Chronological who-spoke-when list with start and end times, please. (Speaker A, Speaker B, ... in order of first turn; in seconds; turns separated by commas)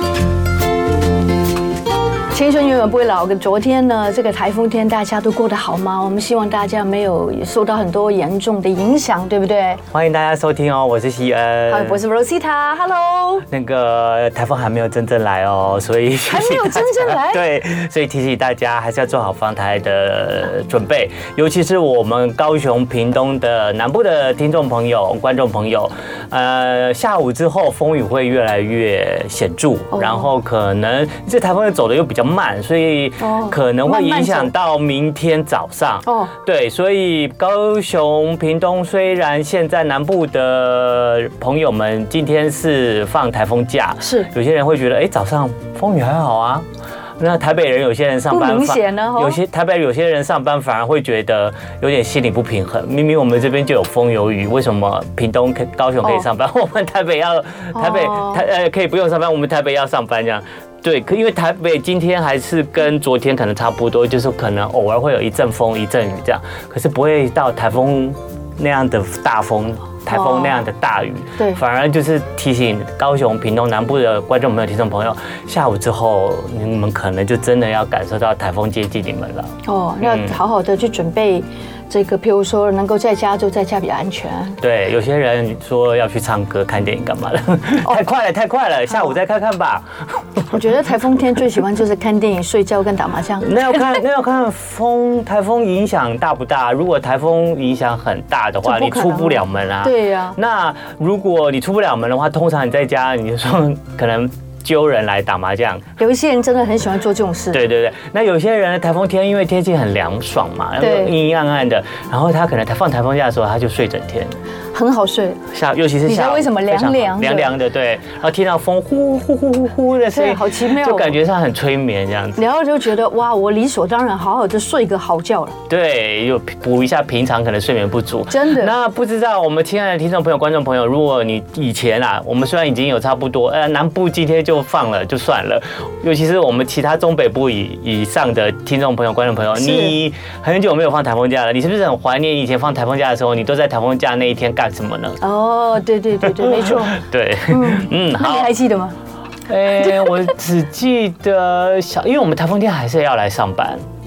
Speaker A: 2.3-9.8, Speaker B: 9.9-12.0, Speaker A: 11.7-13.4, Speaker B: 13.5-46.6, Speaker A: 16.3-17.4, Speaker A: 29.9-30.3, Speaker A: 33.2-34.5, Speaker A: 36.0-36.3, Speaker A: 44.0-44.3, Speaker B: 47.2-80.3, Speaker A: 48.3-49.4, Speaker A: 57.7-58.4, Speaker A: 70.1-70.6, Speaker A: 79.7-84.6, Speaker B: 84.6-90.4, Speaker A: 90.5-94.0, Speaker B: 93.4-105.8, Speaker A: 98.6-100.4, Speaker A: 106.0-107.6, Speaker B: 107.5-114.3, Speaker A: 110.8-111.1, Speaker A: 114.7-115.4, Speaker B: 115.5-122.4, Speaker A: 116.0-117.5, Speaker A: 120.1-121.2, Speaker A: 122.4-125.5, Speaker B: 125.7-145.2, Speaker A: 128.3-128.7, Speaker A: 139.6-140.0, Speaker A: 145.2-147.0, Speaker B: 146.2-148.5, Speaker A: 147.5-148.9, Speaker B: 149.5-153.8